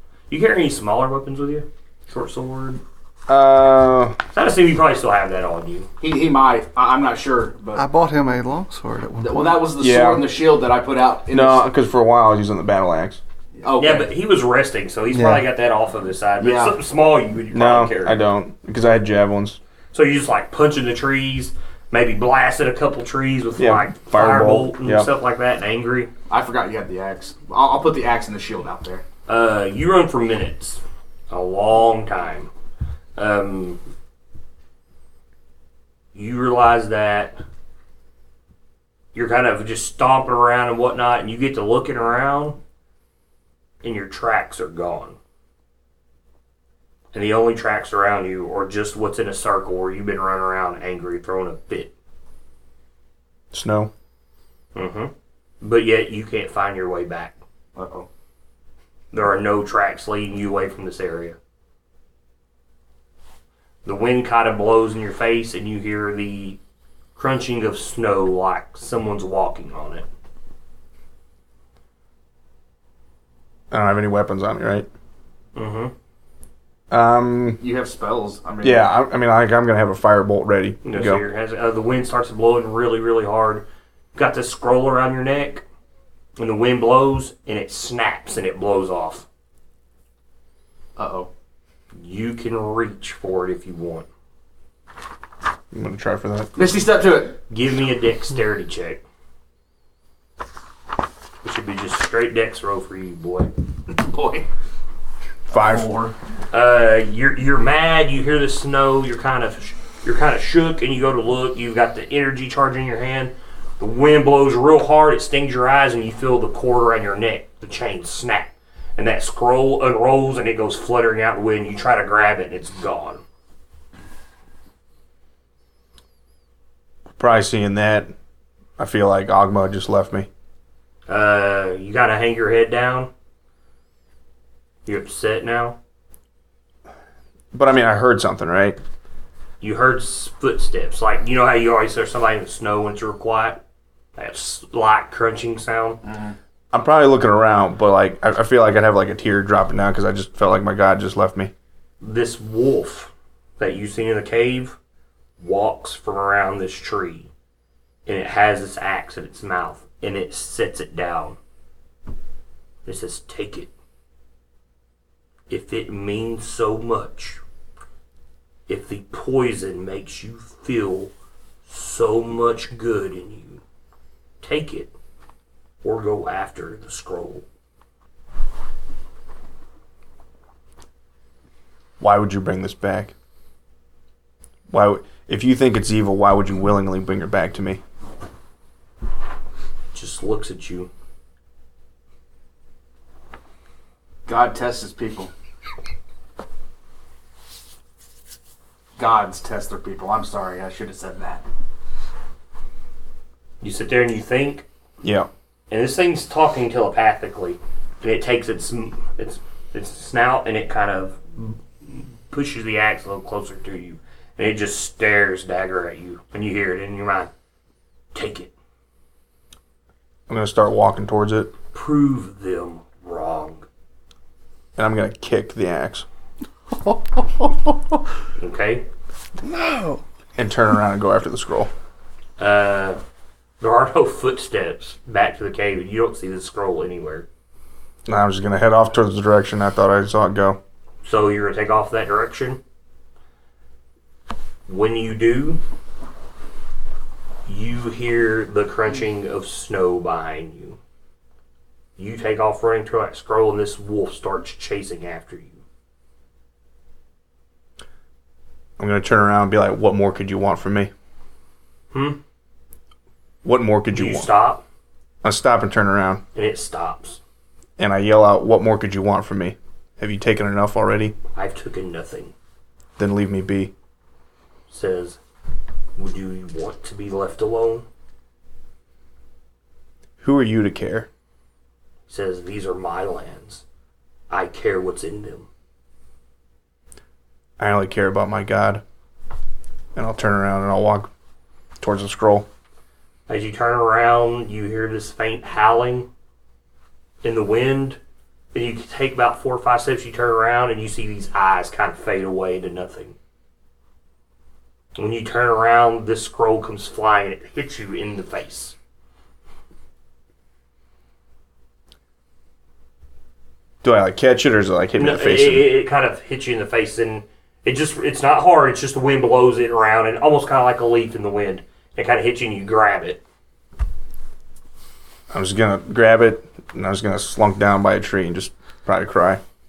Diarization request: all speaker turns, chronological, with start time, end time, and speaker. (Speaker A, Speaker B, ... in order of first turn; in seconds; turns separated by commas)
Speaker A: 0.3-2.8, Speaker B: 3.3-4.2, Speaker A: 4.3-5.9, Speaker C: 6.0-7.8, Speaker D: 7.8-9.6, Speaker C: 9.2-11.6, Speaker B: 9.8-10.3, Speaker B: 11.3-13.2, Speaker C: 13.6-14.1, Speaker A: 13.8-18.2, Speaker D: 15.1-15.4, Speaker C: 16.4-16.8, Speaker B: 17.5-19.6, Speaker A: 19.9-26.1, Speaker B: 23.6-25.1, Speaker C: 26.3-29.0, Speaker A: 29.3-32.5, Speaker A: 33.1-33.8, Speaker A: 36.1-37.4, Speaker A: 39.1-42.6, Speaker A: 43.8-45.2, Speaker A: 47.1-51.9, Speaker B: 53.5-53.9, Speaker A: 54.7-57.4, Speaker C: 57.8-58.1, Speaker A: 59.1-61.4, Speaker A: 63.8-66.6, Speaker A: 67.2-70.0, Speaker B: 73.7-74.9, Speaker A: 75.5-75.9, Speaker B: 76.9-77.6, Speaker C: 77.6-78.9, Speaker B: 78.6-81.2, Speaker A: 80.8-85.6, Speaker A: 86.4-89.2, Speaker C: 91.0-91.3, Speaker A: 91.9-94.0, Speaker B: 95.7-96.5, Speaker C: 96.5-97.4, Speaker A: 97.5-99.0, Speaker A: 101.4-103.5, Speaker C: 103.9-104.5, Speaker B: 105.5-105.9, Speaker C: 105.5-106.1, Speaker A: 106.5-123.2, Speaker B: 127.2-128.1, Speaker B: 128.8-130.3, Speaker A: 131.1-133.1, Speaker A: 134.8-135.8, Speaker B: 137.5-138.8, Speaker A: 139.6-143.6, Speaker A: 144.2-146.0, Speaker C: 146.0-146.3, Speaker B: 146.7-151.5, Speaker A: 152.0-154.8, Speaker A: 155.4-157.3, Speaker A: 158.1-161.4, Speaker A: 162.8-163.7, Speaker A: 165.5-167.4, Speaker A: 168.7-171.1, Speaker A: 171.6-173.6, Speaker A: 174.4-174.9, Speaker A: 175.8-177.4, Speaker B: 182.0-183.1, Speaker B: 184.7-187.8, Speaker A: 189.9-190.9, Speaker C: 194.2-195.3, Speaker C: 199.0-201.4, Speaker A: 203.6-204.7, Speaker B: 205.0-205.3, Speaker A: 205.7-217.3, Speaker A: 218.1-218.5, Speaker B: 220.3-221.5, Speaker A: 221.7-223.6, Speaker B: 224.8-226.1, Speaker A: 228.4-228.8, Speaker D: 229.5-230.0, Speaker B: 230.4-231.7, Speaker A: 232.4-233.0, Speaker A: 233.6-237.3, Speaker B: 238.1-240.6, Speaker A: 241.0-242.6, Speaker A: 244.7-245.6, Speaker A: 247.4-250.8, Speaker A: 252.0-255.6, Speaker B: 258.8-260.9, Speaker A: 261.9-262.2, Speaker B: 263.4-264.3, Speaker A: 263.9-264.6, Speaker B: 265.2-266.2, Speaker A: 266.3-267.2, Speaker B: 267.8-271.1, Speaker A: 271.3-272.3, Speaker B: 273.0-273.7, Speaker A: 274.7-275.2, Speaker A: 276.0-277.9, Speaker B: 280.2-281.1, Speaker A: 282.1-283.6, Speaker A: 284.3-285.5, Speaker B: 287.6-288.8, Speaker B: 289.9-291.1, Speaker B: 291.8-292.5, Speaker A: 293.3-296.1, Speaker A: 297.2-298.0, Speaker A: 298.5-303.1, Speaker A: 304.9-308.7, Speaker B: 313.8-315.7, Speaker A: 315.0-323.2, Speaker B: 325.3-329.4